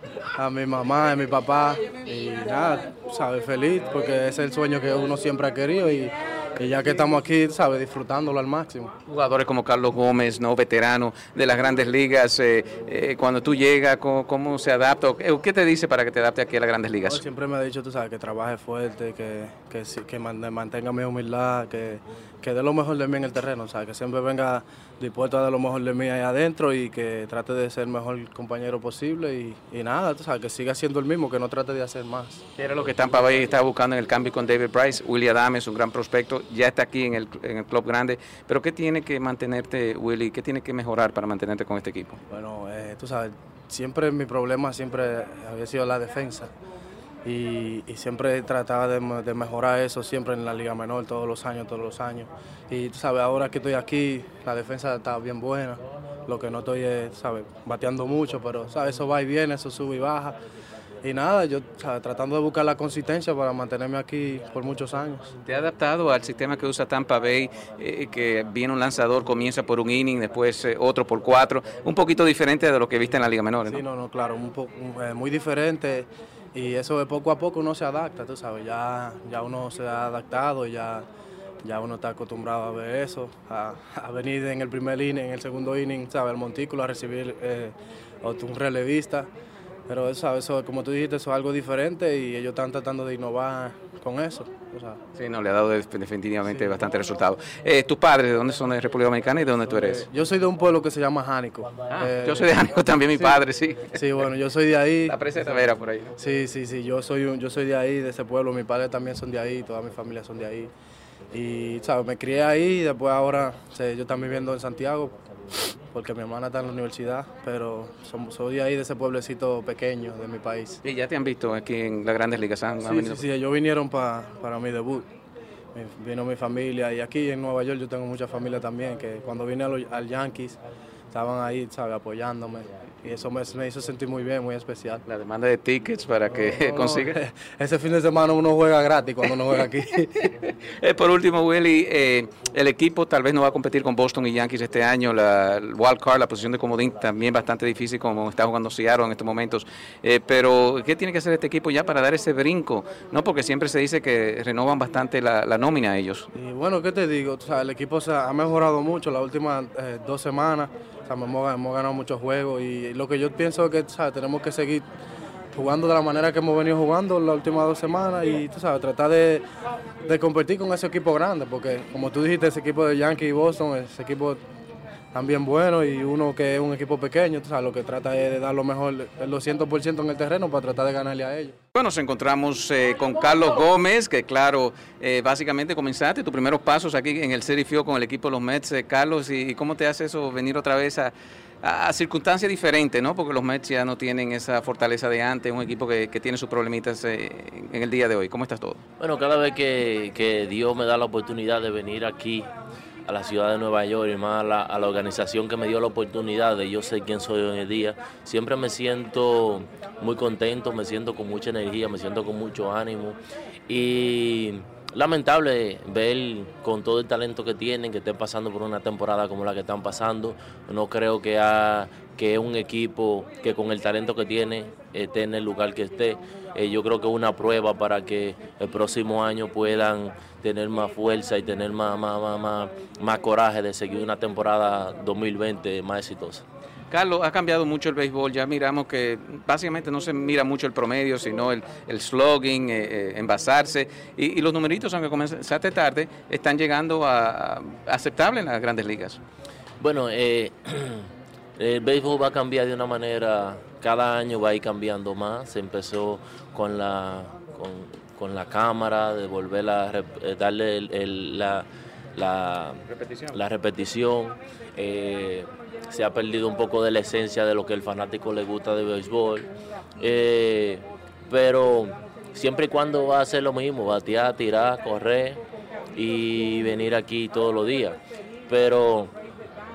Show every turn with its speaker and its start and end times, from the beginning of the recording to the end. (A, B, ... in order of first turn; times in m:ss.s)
0:00.4-0:08.9 A
0:09.1-0:17.2 B
0:17.0-0:32.4 A
0:32.6-0:42.2 B
0:42.3-0:46.5 A
0:47.2-1:00.4 A
1:01.0-1:05.3 A
1:05.4-1:13.8 B
1:13.6-1:21.1 A
1:21.6-1:29.3 A
1:29.9-1:35.0 A
1:35.2-1:40.1 B
1:39.7-1:42.6 A
1:41.9-1:44.1 B
1:43.2-1:43.4 A
1:43.9-1:45.2 A
1:45.1-1:46.1 B
1:46.2-1:50.7 A
1:51.3-1:55.2 A
1:55.9-2:00.8 A
2:00.8-2:03.3 B
2:02.8-2:05.1 A
2:05.7-2:10.6 A
2:11.1-2:15.0 A
2:15.1-2:17.2 B
2:16.3-2:20.3 A
2:20.2-2:36.3 B
2:36.3-2:44.9 A
2:45.5-2:49.4 A
2:50.1-2:54.4 A
2:55.1-3:01.6 A
3:01.8-3:18.8 B
3:19.0-3:22.5 C
3:23.1-3:56.4 C
3:56.9-4:09.2 B
4:09.8-4:11.1 C
4:11.6-4:35.4 C
4:36.0-4:39.1 C